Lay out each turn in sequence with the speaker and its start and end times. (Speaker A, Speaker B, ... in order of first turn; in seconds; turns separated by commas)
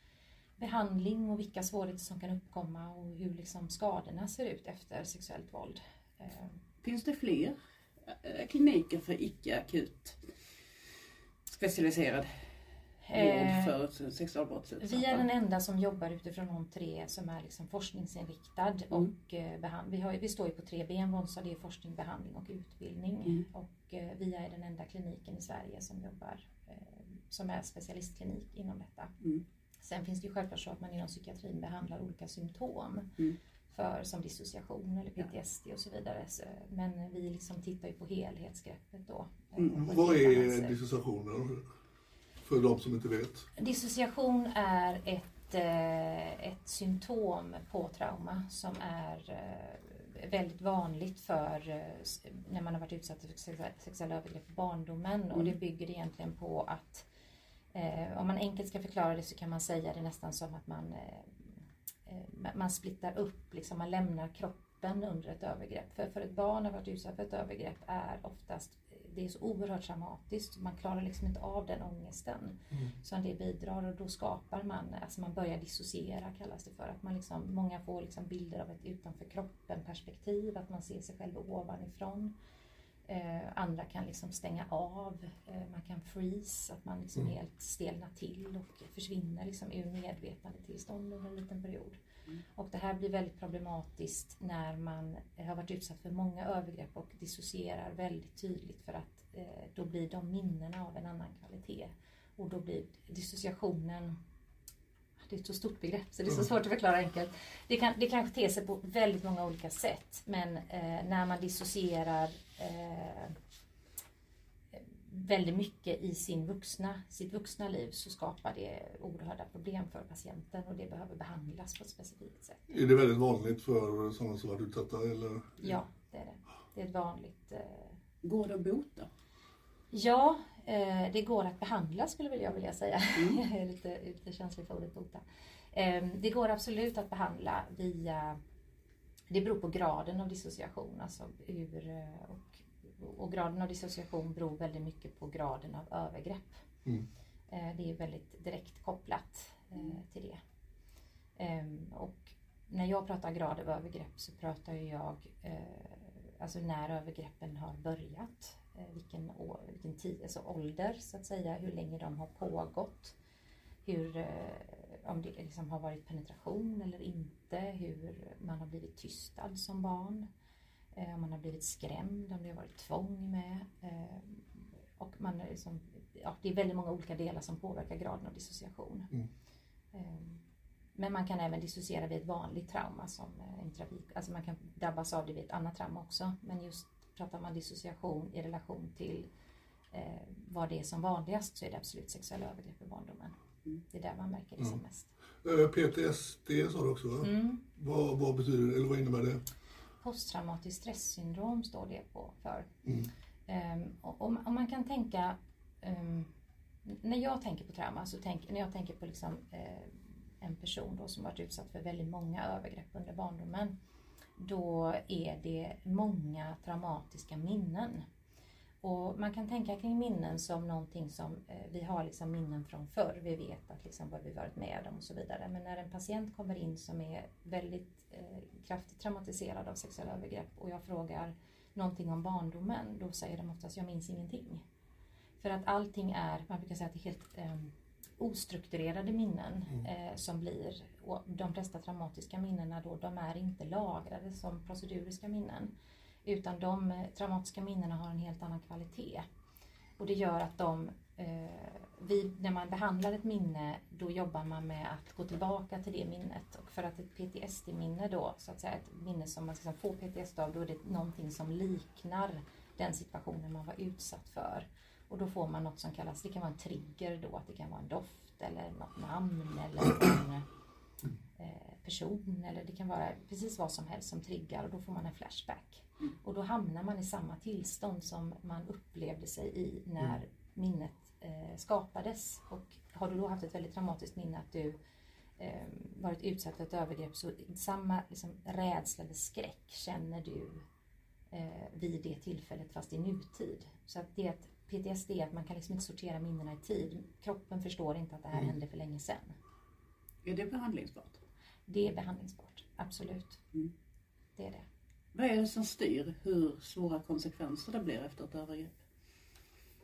Speaker A: 0.6-6.6, Speaker B: 6.8-10.2, Speaker B: 11.5-12.4, Speaker A: 13.1-13.7, Speaker B: 13.1-15.3, Speaker A: 14.8-29.1, Speaker A: 29.8-33.1, Speaker A: 33.7-40.8, Speaker C: 39.7-41.7, Speaker C: 42.4-43.5, Speaker A: 43.6-57.1, Speaker A: 57.7-61.4, Speaker A: 62.1-82.3, Speaker A: 83.1-92.0, Speaker A: 92.5-104.2, Speaker A: 105.2-113.4, Speaker A: 114.7-122.7, Speaker C: 122.7-125.7, Speaker A: 125.6-128.0, Speaker B: 128.2-129.1, Speaker A: 129.9-138.4, Speaker B: 133.2-133.4, Speaker A: 139.3-146.6, Speaker A: 147.5-150.4, Speaker A: 151.4-163.1, Speaker A: 163.8-170.3, Speaker A: 170.9-179.1, Speaker A: 179.9-180.4, Speaker A: 180.9-189.3, Speaker A: 189.9-193.3, Speaker A: 193.9-195.1, Speaker C: 195.4-199.4, Speaker A: 197.2-197.6, Speaker A: 200.0-202.7, Speaker A: 203.5-206.3, Speaker A: 206.8-213.8, Speaker A: 214.4-218.1, Speaker A: 218.8-234.6, Speaker A: 235.4-245.7, Speaker A: 246.2-249.2, Speaker A: 250.0-270.5, Speaker A: 271.4-284.8, Speaker A: 285.4-290.6, Speaker A: 291.3-299.4, Speaker B: 300.2-301.2, Speaker A: 301.7-303.4, Speaker A: 304.4-304.6, Speaker B: 305.1-308.8